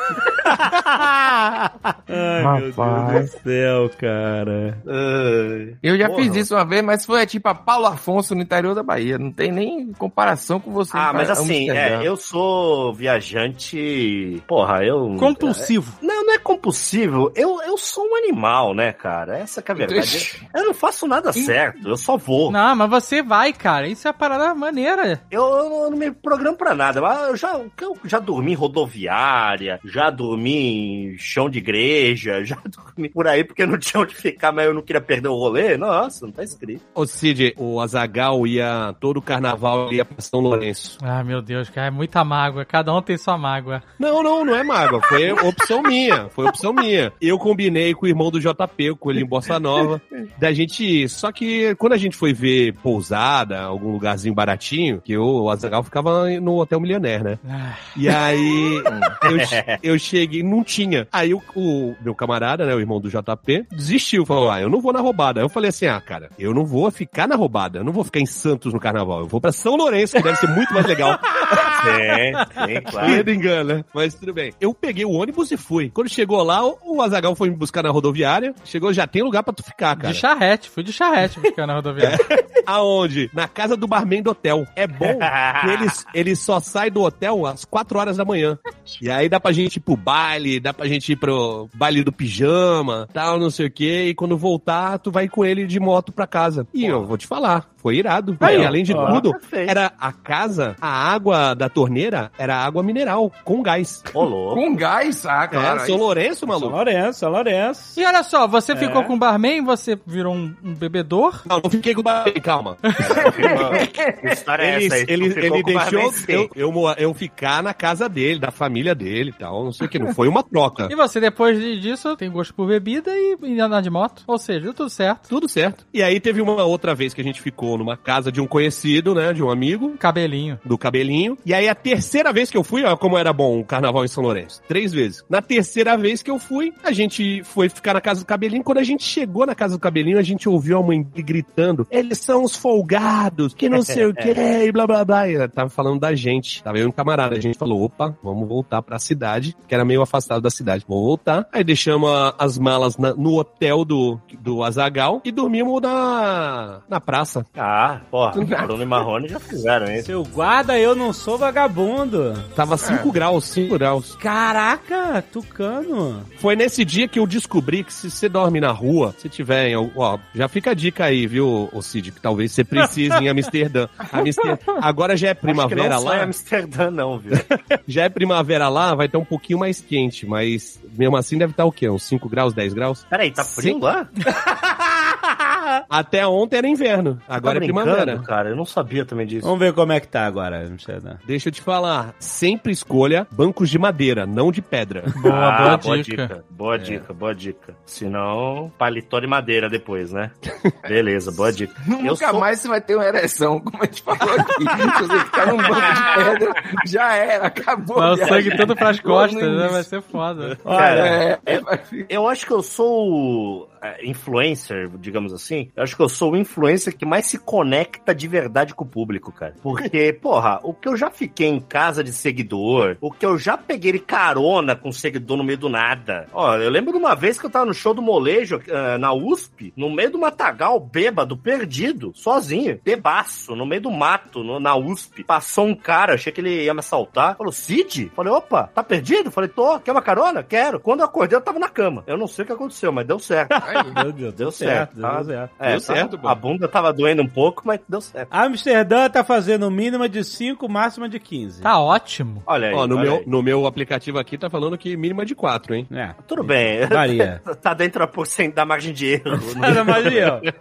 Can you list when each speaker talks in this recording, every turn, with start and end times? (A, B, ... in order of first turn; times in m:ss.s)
0:00.1-0:04.8 A
0:02.4-0:03.3 B
0:04.8-0:06.5 C
0:05.8-0:12.1 B
0:10.9-0:22.6 C
0:15.2-0:16.0 D
0:19.8-0:20.4 B
0:22.5-0:25.2 D
0:25.3-0:36.8 C
0:37.0-0:41.0 E
0:41.0-0:43.8 D
0:44.0-0:57.4 E
0:57.4-0:57.9 D
0:58.0-1:11.7 E
0:58.8-0:59.1 B
0:59.2-0:59.8 C
1:11.7-1:13.3 C
1:13.0-1:20.2 E
1:20.0-1:22.2 D
1:22.0-1:44.1 E
1:25.0-1:26.0 C
1:36.8-1:37.1 C
1:38.4-1:39.2 A
1:38.4-1:39.8 C
1:44.1-1:44.7 C
1:44.5-1:46.0 B
1:45.5-1:46.8 E
1:46.5-1:48.0 A
1:48.0-1:51.4 D
1:48.7-1:49.1 A
1:51.5-1:53.9 E
1:53.0-1:56.5 C
1:53.4-1:54.4 B
1:54.6-2:00.9 E
2:00.9-2:05.3 D
2:05.3-2:10.0 E
2:10.0-2:10.6 D
2:10.6-2:37.5 E
2:23.9-2:24.3 C
2:37.6-2:40.1 C
2:38.4-2:39.0 B
2:40.0-2:42.5 A
2:42.6-2:44.2 E
2:42.8-2:43.1 B
2:44.2-2:46.3 A
2:46.4-2:56.3 E
2:55.4-2:57.5 C
2:57.9-3:03.8 E
3:03.1-3:04.1 C
3:04.4-3:04.8 A
3:05.9-3:08.3 E
3:07.4-3:09.5 C
3:09.4-3:11.2 A
3:11.2-3:15.2 E
3:15.2-3:16.3 D
3:15.3-3:22.4 C
3:16.8-3:17.0 A
3:21.8-3:29.9 B
3:25.6-3:26.3 C
3:28.0-3:30.6 D
3:28.3-3:28.7 C
3:30.6-3:31.2 A
3:30.7-4:03.6 C
3:30.8-3:32.1 B
4:03.6-4:04.0 B
4:03.9-4:05.5 A
4:04.4-4:08.3 C
4:05.6-4:06.4 E
4:08.3-4:11.7 A
4:11.6-4:12.4 D
4:12.5-4:13.3 C
4:12.7-4:15.9 E
4:15.9-4:17.4 A
4:16.2-4:20.3 C
4:19.5-4:20.5 A